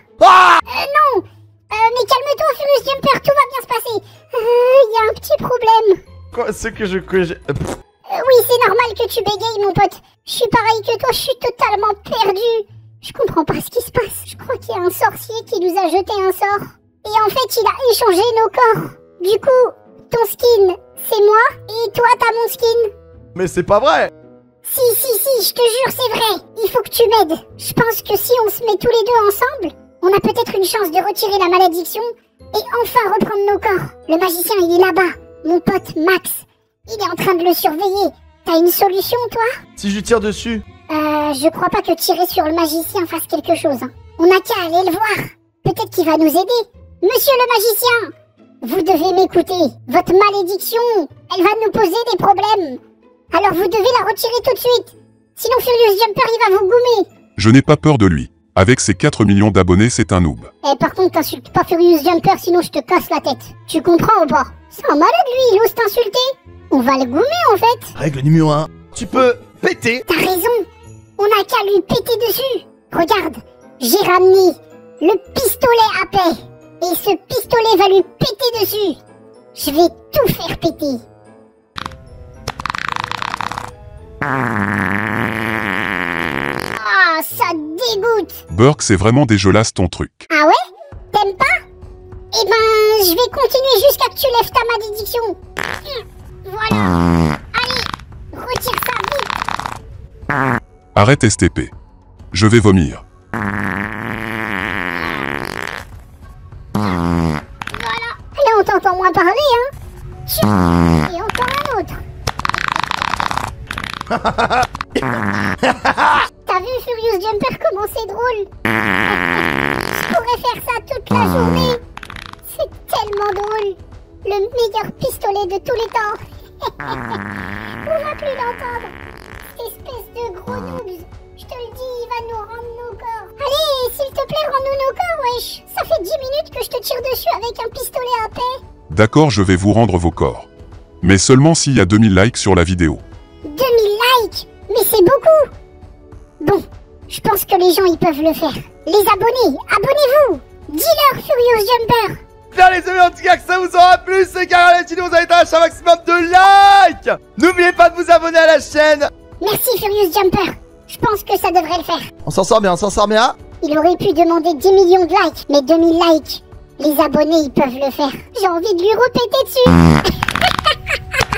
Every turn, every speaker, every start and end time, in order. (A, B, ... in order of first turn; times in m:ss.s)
0:00.7-0:06.0 A
0:06.3-0:07.7 B
0:08.1-0:22.9 A
0:23.4-0:24.1 B
0:24.6-0:39.5 A
0:39.8-0:40.6 B
0:40.9-0:48.1 A
0:48.6-0:52.8 A
0:53.3-0:57.1 A
0:57.4-1:00.5 C
1:00.6-1:07.9 A
1:08.0-1:10.0 B
1:10.1-1:10.6 A
1:11.2-1:19.0 A
1:19.6-1:21.0 A
1:26.7-1:28.4 A
1:28.5-1:30.2 C
1:30.3-1:30.6 A
1:31.1-1:31.5 A
1:32.3-1:39.3 A
1:41.0-1:41.7 C
1:42.3-1:43.0 C
1:47.7-1:49.7 A
1:50.2-1:52.0 A
1:56.4-1:58.5 A
1:59.1-2:01.8 A
2:02.4-2:08.9 A
2:09.6-2:18.6 A
2:18.9-2:20.5 C
2:21.0-2:23.0 C
2:23.4-2:25.5 A
2:26.4-2:32.2 A
2:32.5-2:39.1 B
2:39.4-2:42.1 A
2:42.2-2:43.4 B
2:43.6-2:51.2 A